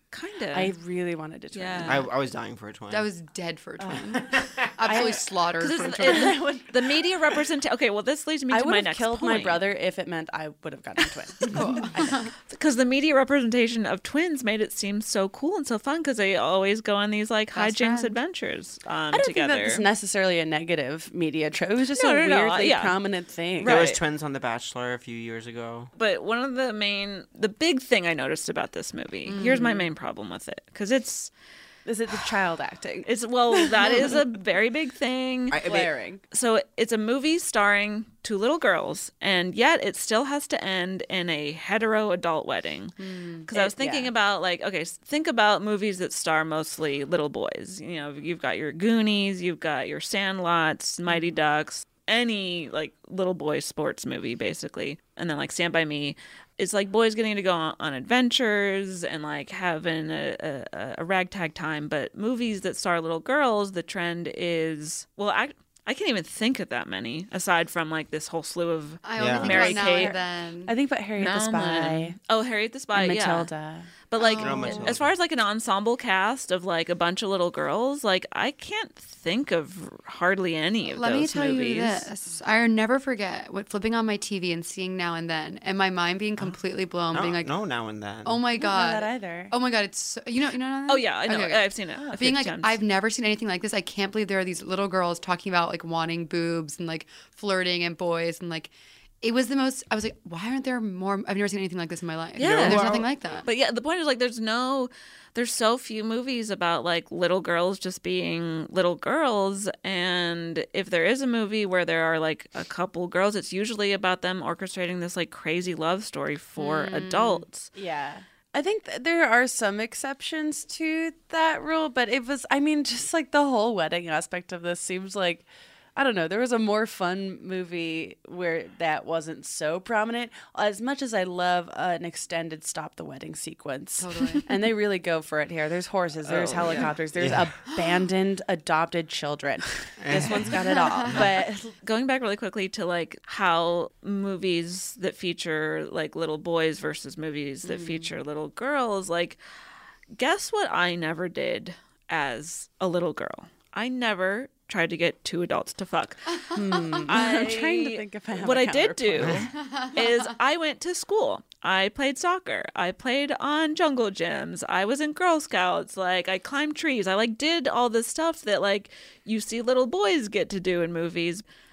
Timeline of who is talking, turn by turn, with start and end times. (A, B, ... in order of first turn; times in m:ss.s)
0:00.1-0:00.7 A
0:00.5-0:02.0 B
0:01.5-0:02.0 A
0:01.8-0:03.1 C
0:02.9-0:06.4 D
0:03.8-0:04.1 B
0:04.4-0:05.0 C
0:04.8-0:05.2 B
0:05.6-0:09.6 A
0:06.0-0:06.7 B
0:08.5-0:12.2 B
0:11.5-0:12.3 D
0:12.5-0:19.8 A
0:17.5-0:18.2 D
0:19.1-0:23.8 B
0:21.9-0:23.0 A
0:23.6-0:24.0 A
0:23.6-0:25.9 C
0:26.0-0:31.3 A
0:29.3-0:29.8 D
0:31.8-0:34.2 B
0:33.0-0:35.6 A
0:35.5-0:35.9 C
0:35.6-0:36.2 B
0:36.3-1:10.1 A
0:43.0-0:43.5 D
0:43.5-0:44.1 B
1:09.0-1:10.7 D
1:09.2-1:09.7 C
1:09.4-1:12.2 B
1:11.2-1:13.5 A
1:12.9-1:13.9 B
1:14.1-1:22.1 A
1:14.2-1:14.9 D
1:14.4-1:15.1 C
1:20.9-1:27.6 D
1:27.1-1:28.4 C
1:28.2-1:43.5 D
1:28.5-1:29.5 B
1:30.9-1:32.8 A
1:32.0-1:32.2 B
1:42.4-1:57.7 A
1:42.4-1:43.1 C
1:56.6-1:57.4 D
1:57.7-2:21.7 B
2:14.0-2:14.4 D
2:16.3-2:16.9 A
2:16.6-2:17.5 C
2:20.0-2:20.6 C
2:20.8-2:21.2 D
2:21.8-2:29.4 A
2:27.6-2:28.1 D
2:30.2-2:36.6 A
2:36.5-2:37.0 D
2:36.5-2:39.5 B
2:37.1-2:51.4 A
2:39.6-2:40.0 D